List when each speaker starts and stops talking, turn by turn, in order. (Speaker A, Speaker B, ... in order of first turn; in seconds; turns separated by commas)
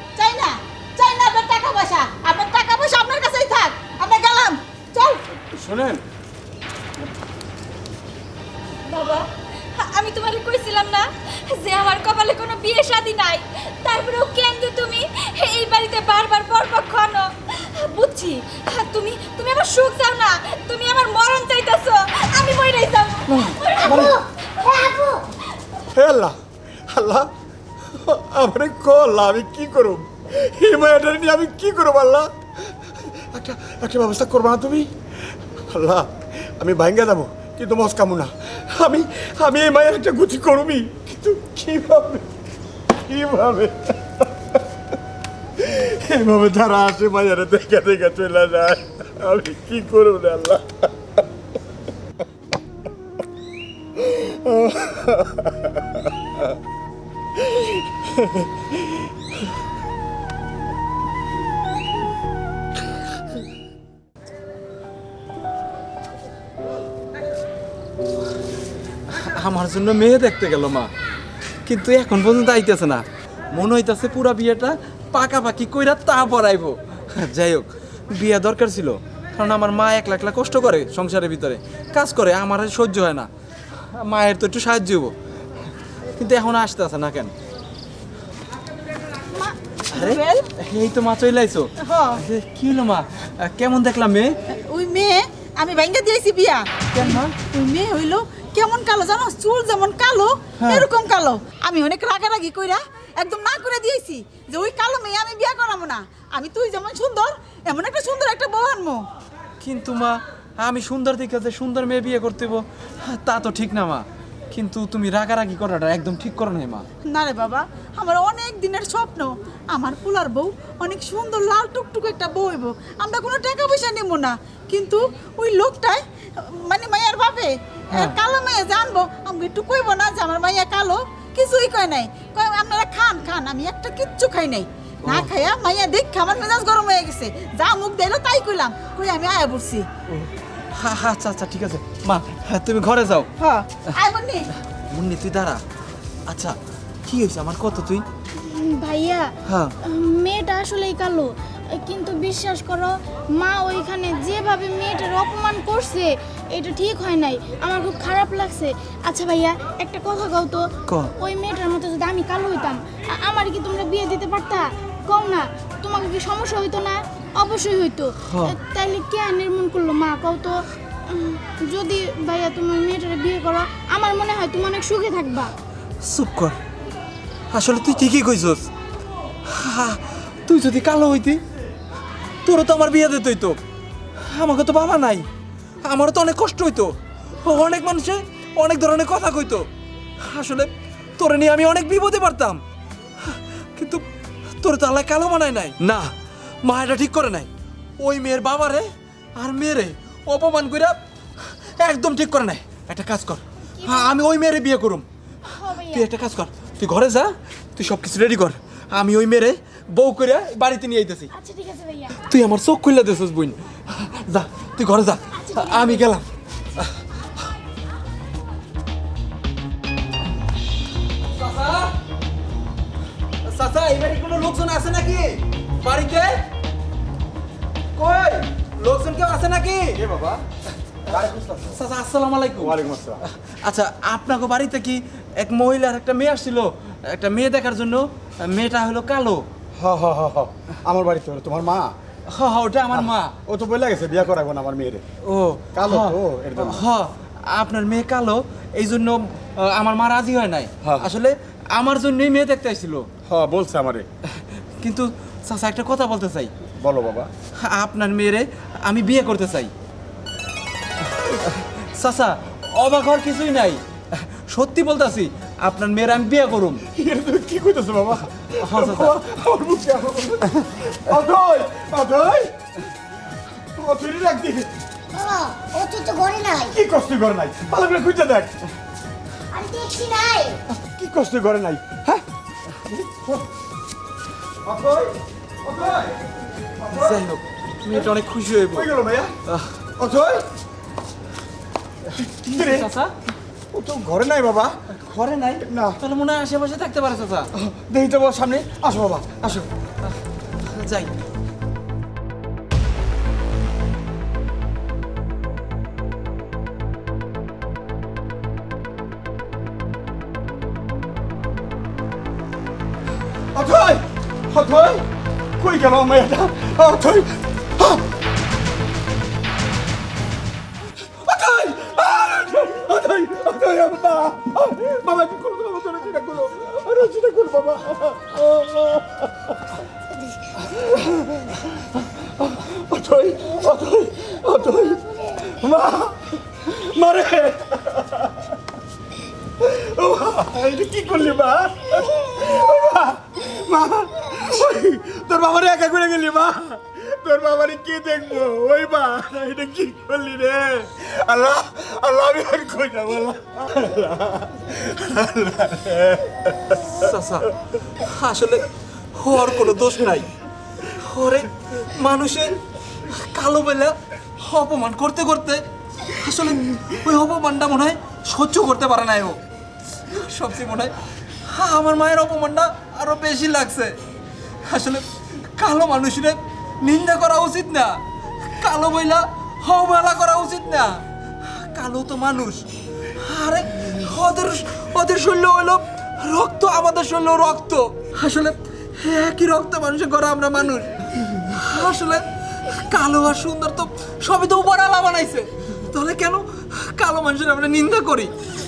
Speaker A: 0.2-5.2, Speaker B: 5.5-6.0, Speaker C: 8.9-23.8, Speaker B: 23.8-24.2, Speaker D: 23.8-25.2, Speaker B: 25.9-26.4, Speaker B: 26.9-27.3, Speaker B: 27.9-34.9, Speaker B: 35.7-42.3, Speaker B: 43.1-44.6, Speaker B: 45.6-50.9, Speaker B: 54.0-55.8, Speaker B: 57.5-58.7, Speaker E: 69.1-70.9, Speaker E: 71.7-83.3, Speaker E: 84.0-85.1, Speaker E: 86.2-87.3, Speaker A: 89.3-90.5, Speaker E: 90.0-94.4, Speaker A: 91.8-92.2, Speaker A: 94.5-109.0, Speaker E: 97.0-97.3, Speaker E: 100.6-100.8, Speaker E: 109.6-116.9, Speaker A: 117.1-139.9, Speaker E: 140.1-143.3, Speaker A: 143.4-144.4, Speaker E: 144.9-145.6, Speaker E: 146.3-148.1, Speaker F: 148.4-149.3, Speaker E: 149.5-149.7, Speaker F: 149.8-175.5, Speaker E: 168.3-168.6, Speaker E: 176.1-176.6, Speaker E: 177.5-178.7, Speaker E: 179.5-181.4, Speaker E: 182.4-183.6, Speaker E: 184.3-185.3, Speaker E: 185.8-189.7, Speaker E: 190.2-192.6, Speaker E: 193.3-194.1, Speaker E: 194.6-196.1, Speaker E: 196.6-201.0, Speaker E: 201.8-205.1, Speaker F: 203.8-204.2, Speaker F: 205.5-206.1, Speaker E: 205.8-211.3, Speaker F: 211.3-212.1, Speaker E: 212.2-216.2, Speaker F: 215.4-216.1, Speaker E: 221.4-221.9, Speaker E: 223.4-226.4, Speaker E: 228.0-230.0, Speaker B: 229.9-230.4, Speaker B: 231.1-231.8, Speaker E: 231.7-232.8, Speaker B: 232.6-233.2, Speaker E: 233.6-239.4, Speaker B: 239.8-241.9, Speaker E: 242.3-243.3, Speaker B: 242.9-245.0, Speaker E: 245.3-253.1, Speaker B: 245.7-246.9, Speaker B: 250.8-251.1, Speaker B: 253.3-254.1, Speaker E: 254.8-256.5, Speaker B: 256.8-257.3, Speaker E: 257.6-259.7, Speaker E: 261.9-263.8, Speaker E: 264.5-266.8, Speaker B: 266.9-272.5, Speaker E: 268.6-269.2, Speaker B: 273.8-274.7, Speaker D: 275.1-276.8, Speaker B: 276.7-278.6, Speaker D: 279.5-280.6, Speaker B: 280.9-282.2, Speaker B: 282.9-283.4, Speaker B: 284.6-286.2, Speaker B: 286.8-287.3, Speaker E: 286.9-288.9, Speaker B: 287.9-289.3, Speaker B: 290.0-290.4, Speaker B: 292.2-292.9, Speaker E: 292.4-293.1, Speaker B: 293.7-294.8, Speaker E: 294.9-297.5, Speaker B: 295.6-296.0, Speaker B: 297.6-299.7, Speaker E: 300.7-301.1, Speaker B: 313.5-315.0, Speaker B: 315.6-318.0, Speaker B: 321.1-329.6, Speaker B: 330.6-331.6, Speaker B: 332.4-338.4, Speaker B: 339.6-357.0, Speaker E: 357.0-357.5, Speaker E: 358.0-360.3, Speaker E: 361.0-362.6, Speaker E: 363.1-369.4, Speaker E: 370.1-370.9, Speaker E: 371.5-374.0, Speaker E: 374.6-375.0, Speaker E: 375.6-378.0, Speaker E: 378.6-382.7, Speaker E: 383.2-398.3